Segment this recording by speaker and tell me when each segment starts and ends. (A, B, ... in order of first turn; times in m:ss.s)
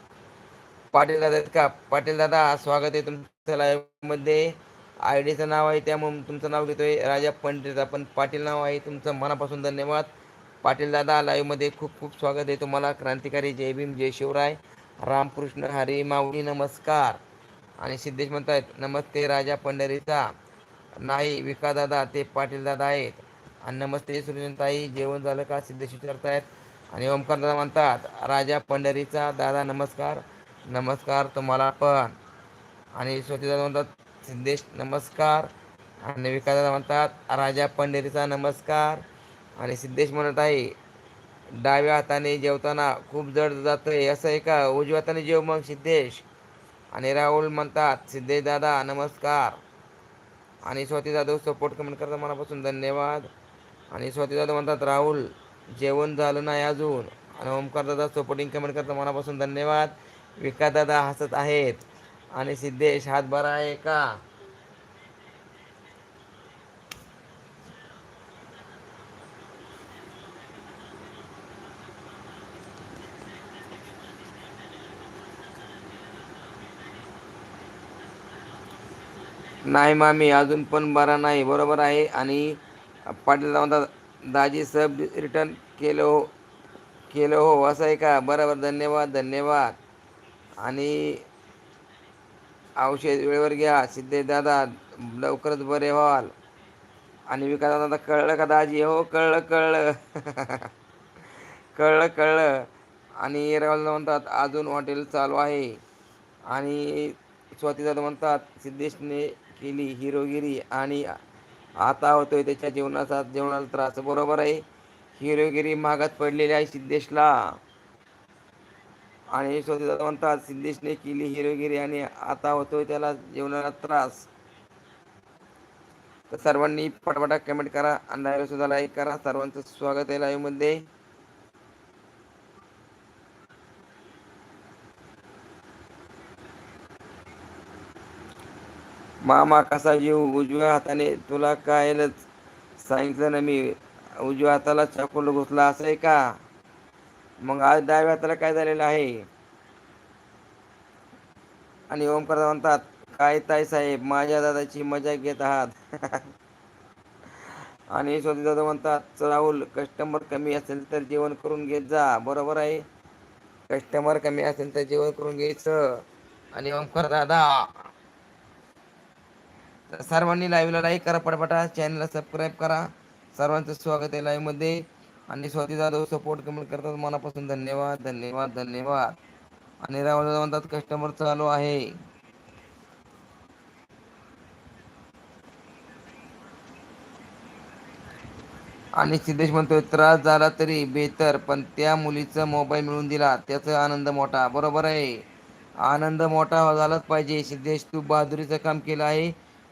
0:00.9-0:10.1 A
0:10.6-0:17.2 A
0:17.8-0:20.2 A
0:21.0-0:32.1 A
0:33.0-0:35.5 A
0:36.0-0:39.0 A
0:39.6-0:40.7 A
0:41.6-0:46.2 A
0:46.9-0:49.6 A
0:50.7-0:53.3 A
0:53.9-1:04.0 A
1:19.7-1:26.3 A
1:27.1-1:29.8 A
1:30.6-1:31.2 A
1:32.8-1:36.3 A
1:37.3-1:40.7 A
1:41.8-1:42.7 A
1:43.2-1:45.8 A
1:46.5-1:51.1 A
1:51.8-1:54.6 A
1:55.2-1:57.4 A
1:59.3-2:04.3 A
2:06.3-2:10.8 A
2:19.2-2:22.2 A
2:22.8-2:26.3 A
2:27.4-2:29.3 A
2:31.9-2:36.3 A
2:37.9-2:42.8 A
2:43.7-2:47.8 A
2:49.9-2:59.1 A
2:59.8-3:01.9 A
3:09.0-3:15.2 A
3:15.8-3:19.3 A